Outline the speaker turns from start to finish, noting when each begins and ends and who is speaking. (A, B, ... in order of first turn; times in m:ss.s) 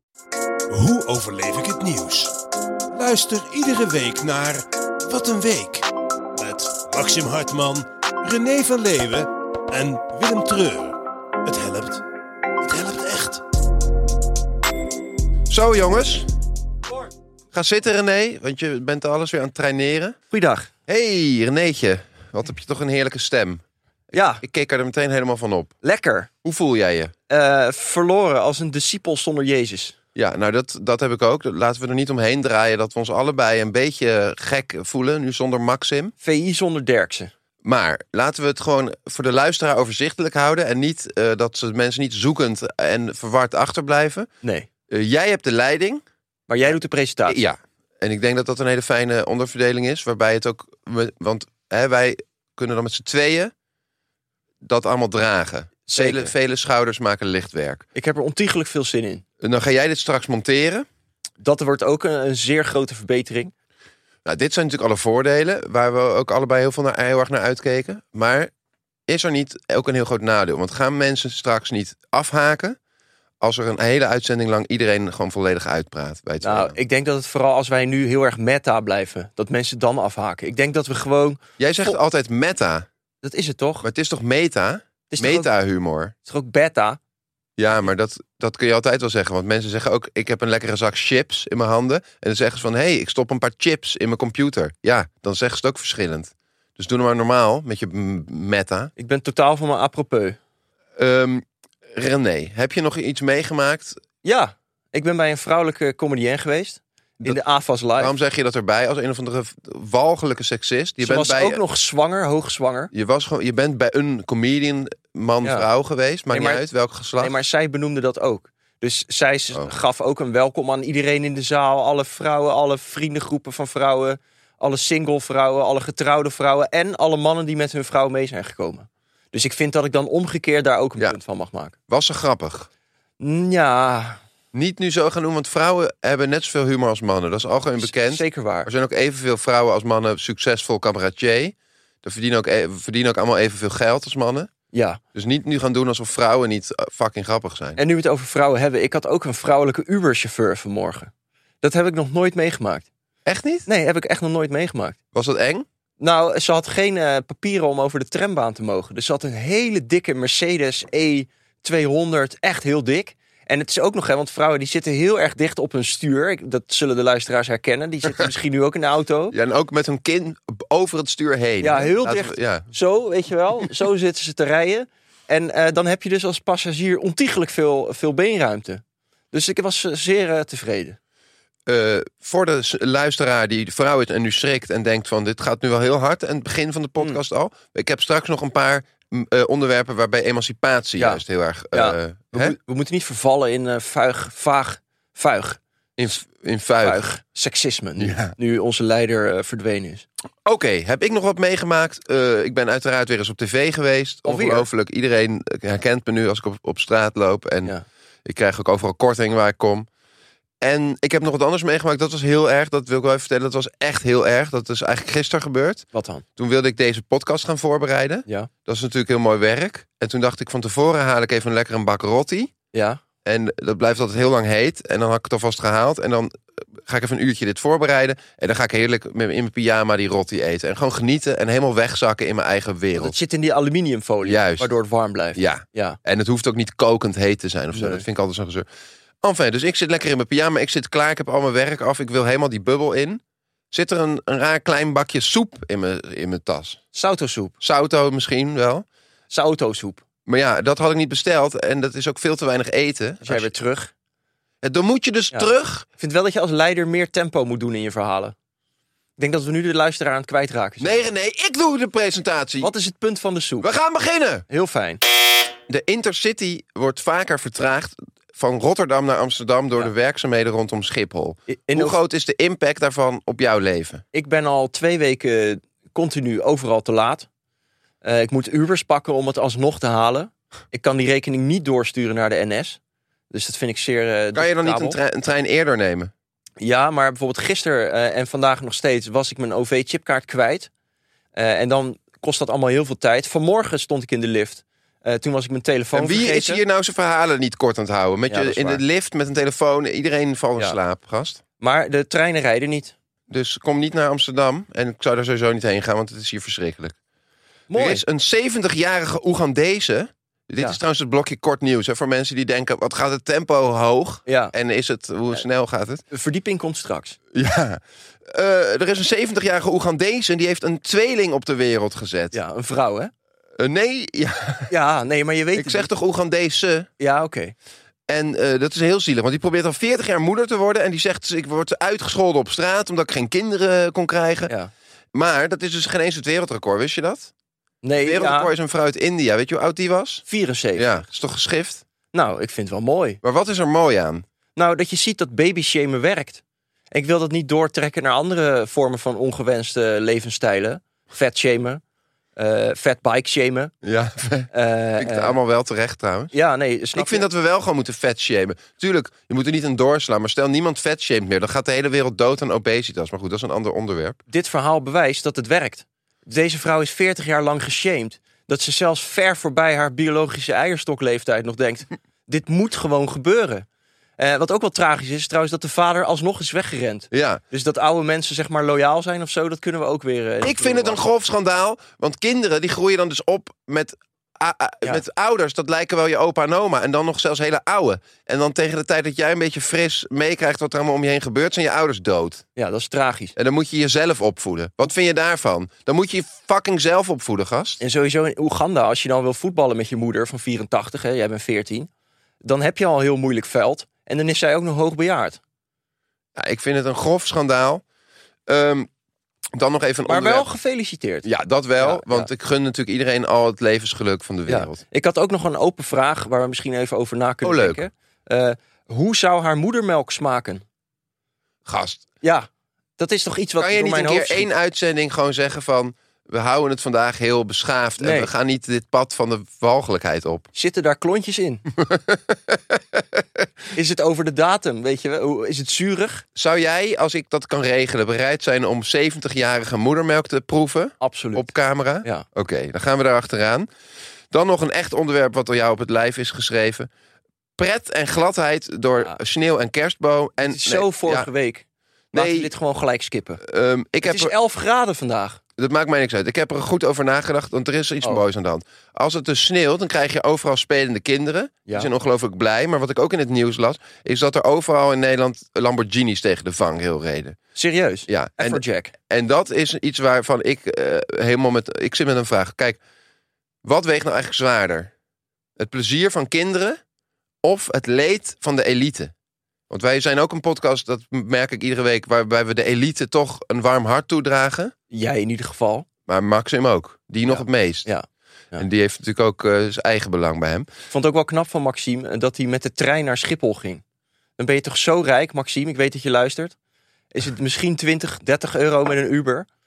0:00.7-0:02.3 A
0:02.9-0:05.8 A
0:06.4-0:12.0 A
0:12.6-0:13.4 A
0:15.5-0:16.3 B
0:17.5-0:20.2 B
0:20.3-0:20.7 C
0:20.9-0:25.7 B
0:24.1-0:24.4 C
0:25.8-0:26.3 C
0:26.4-0:27.1 B
0:27.3-0:30.0 C
0:30.1-0:36.1 B
0:36.2-0:37.3 C
0:37.6-0:44.3 B
0:44.4-0:44.7 C
0:44.9-0:46.0 B
0:46.5-0:47.4 C
0:47.3-0:53.5 B
0:54.6-0:57.8 B
0:55.9-0:56.3 C
0:57.9-0:59.2 C
0:59.4-1:00.8 B
1:01.4-1:03.5 C
1:04.2-1:08.5 B
1:09.1-1:12.8 B
1:13.4-1:16.7 B
1:16.4-1:22.0 C
1:21.6-1:22.9 B
1:23.2-1:23.9 C
1:23.8-1:26.1 B
1:25.1-1:25.5 C
1:26.2-1:27.0 C
1:27.6-1:38.9 B
1:39.0-1:40.4 C
1:41.0-1:44.0 B
1:44.2-1:48.1 C
1:48.0-1:51.6 B
1:51.0-1:52.9 C
1:52.9-1:57.3 B
1:55.4-1:55.7 C
1:56.3-1:56.6 C
1:57.2-2:11.8 C
2:11.9-2:12.7 B
2:13.2-2:14.2 C
2:14.5-2:24.5 B
2:17.8-2:18.7 C
2:24.7-2:25.0 C
2:25.1-2:27.8 B
2:27.8-2:32.9 C
2:33.2-2:33.7 B
2:33.6-2:35.0 C
2:35.1-2:35.6 B
2:36.0-2:49.3 C
2:49.3-2:52.7 B
2:51.6-3:01.0 C
3:01.7-3:12.6 B
3:11.0-3:15.6 C
3:16.0-3:17.0 B
3:16.8-3:20.0 C
3:18.0-3:18.3 B
3:20.4-3:27.7 B
3:24.2-3:24.6 C
3:28.2-3:29.9 B
3:30.6-3:35.8 B
3:35.9-3:36.2 C
3:36.4-3:42.5 B
3:42.7-3:43.0 C
3:43.2-3:53.1 B
3:52.9-3:56.0 C
3:54.2-3:54.7 B
3:55.3-3:58.6 B
3:57.7-3:58.0 C
3:59.2-4:06.8 B
4:06.9-4:07.6 C
4:07.6-4:08.8 B
4:09.3-4:10.0 C
4:10.2-4:13.5 B
4:13.2-4:13.9 C
4:14.6-4:15.8 B
4:15.3-4:18.3 C
4:19.2-4:21.0 C
4:20.8-4:22.7 B
4:22.6-4:23.7 C
4:23.6-4:24.4 B
4:24.5-4:25.0 C
4:25.7-4:34.0 B
4:31.5-4:32.0 C
4:34.1-4:37.3 C
4:38.0-4:42.8 C
4:43.3-4:45.0 C
4:44.3-4:46.1 B
4:46.6-4:50.7 C
4:51.3-4:56.6 C
4:55.9-5:01.4 B
4:58.3-4:58.8 C
5:01.6-5:02.9 C
5:03.3-5:07.0 B
5:07.7-5:08.0 C
5:07.7-5:16.0 B
5:14.2-5:14.5 C
5:16.1-5:17.2 C
5:17.3-5:22.3 B
5:22.3-5:23.1 C
5:23.6-5:24.7 B
5:24.7-5:25.9 C
5:25.5-5:26.9 B
5:27.0-5:27.5 C
5:28.1-5:34.5 B
5:34.5-5:34.7 C
5:35.1-5:37.3 B
5:37.8-5:38.5 C
5:38.0-5:40.2 B
5:40.3-5:41.0 C
5:40.8-5:41.8 B
5:42.1-5:43.2 C
5:43.2-5:44.2 B
5:44.5-5:46.4 C
5:46.9-5:51.8 C
5:52.4-5:53.7 C
5:53.8-5:56.3 B
5:54.5-5:55.4 C
5:56.3-5:57.3 C
5:56.9-6:04.2 B
6:04.3-6:13.6 C
6:14.2-6:21.0 C
6:17.1-6:17.4 B
6:20.4-6:32.4 B
6:32.6-6:33.3 C
6:33.4-6:37.8 B
6:37.8-6:41.9 C
6:42.4-6:45.4 C
6:46.4-6:47.8 B
6:48.5-6:48.9 B
6:49.6-6:50.5 B
6:50.1-6:51.3 C
6:51.2-6:54.8 B
6:51.8-6:52.3 C
6:54.5-7:00.6 C
6:57.4-6:57.8 B
7:01.6-7:02.0 B
7:02.2-7:02.5 C
7:03.0-7:04.5 C
7:03.6-7:10.5 B
7:08.0-7:08.3 C
7:10.5-7:11.6 C
7:11.8-7:13.0 B
7:13.7-7:16.2 C
7:16.3-7:23.7 B
7:21.0-7:21.5 C
7:24.3-7:26.9 B
7:27.6-7:31.3 B
7:30.4-7:33.4 C
7:32.1-7:32.5 B
7:33.4-7:34.3 B
7:34.0-7:35.4 C
7:35.6-7:47.4 B
7:47.6-7:48.9 C
7:48.1-7:52.8 B
7:53.6-7:54.9 B
7:55.6-7:56.8 B
7:57.4-7:59.1 B
7:59.7-8:04.7 B
8:04.9-8:05.9 C
8:06.1-8:07.9 B
8:07.3-8:08.6 C
8:08.6-8:10.7 B
8:10.9-8:13.8 C
8:14.4-8:16.5 C
8:17.1-8:19.4 C